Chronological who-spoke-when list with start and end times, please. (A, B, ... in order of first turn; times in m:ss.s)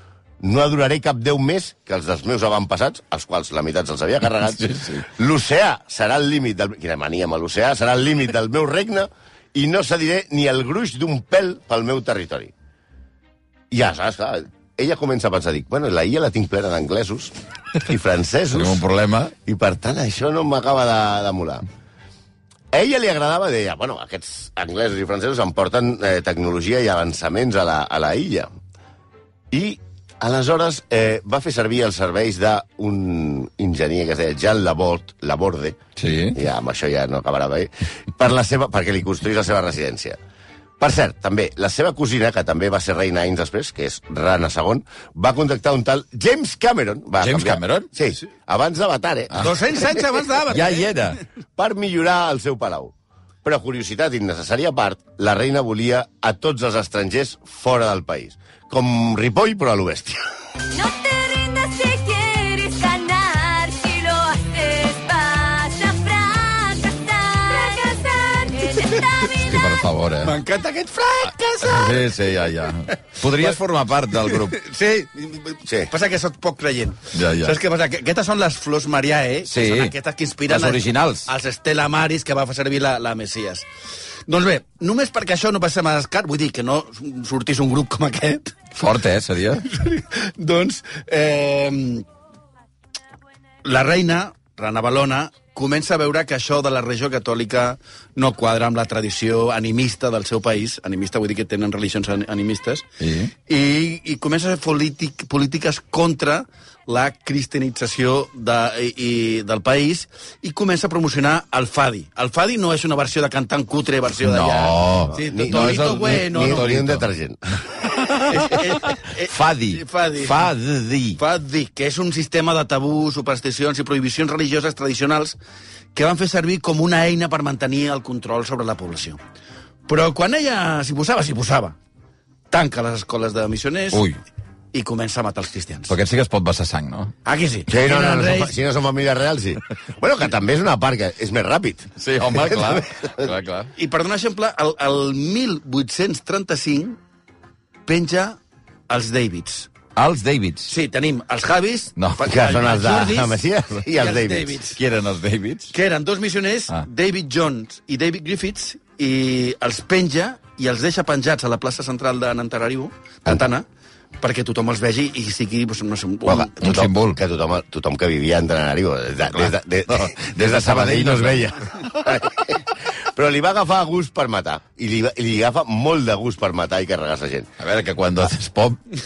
0:00.4-0:12.5 A
0:04.6-0:05.0 B
0:13.7-0:18.8 A
0:18.5-0:19.3 B
0:19.4-0:21.6 A
0:22.7-0:28.5 A
0:29.5-0:35.8 A
0:36.0-0:36.4 B
0:36.3-0:40.2 A
0:40.8-0:49.8 A
0:47.2-0:47.9 B
0:49.4-0:51.0 C
0:50.5-0:51.2 B
0:51.6-1:00.2 A
1:00.7-1:09.7 D
1:09.4-1:10.4 B
1:10.2-1:12.2 C
1:11.6-1:14.6 B
1:12.9-1:13.6 C
1:14.2-1:23.7 C
1:17.1-1:17.6 B
1:19.5-1:19.9 B
1:20.5-1:21.3 B
1:24.3-1:28.6 C
1:28.8-1:29.6 B
1:29.7-1:32.1 C
1:33.6-1:42.9 C
1:43.0-1:43.3 B
1:43.5-1:56.7 C
1:54.2-1:57.1 B
1:55.1-1:57.4 A
1:57.9-2:01.2 B
1:58.2-2:00.5 C
2:01.2-2:05.4 C
2:06.0-2:09.2 C
2:09.9-2:11.8 C
2:12.5-2:14.0 C
2:13.9-2:14.2 B
2:14.7-2:16.0 C
2:15.9-2:17.1 B
2:17.2-2:18.6 C
2:17.7-2:23.3 A
2:22.0-2:23.7 B
2:23.8-2:27.0 C
2:27.9-2:29.7 C
2:30.0-2:30.7 B
2:30.7-2:34.8 C
2:32.0-2:32.3 B
2:32.3-2:34.6 A
2:34.8-2:35.7 B
2:35.7-2:43.6 C
2:44.2-2:46.6 C
2:46.3-2:57.5 A
2:46.6-2:47.2 B
2:49.4-2:51.6 B
2:57.6-2:58.8 B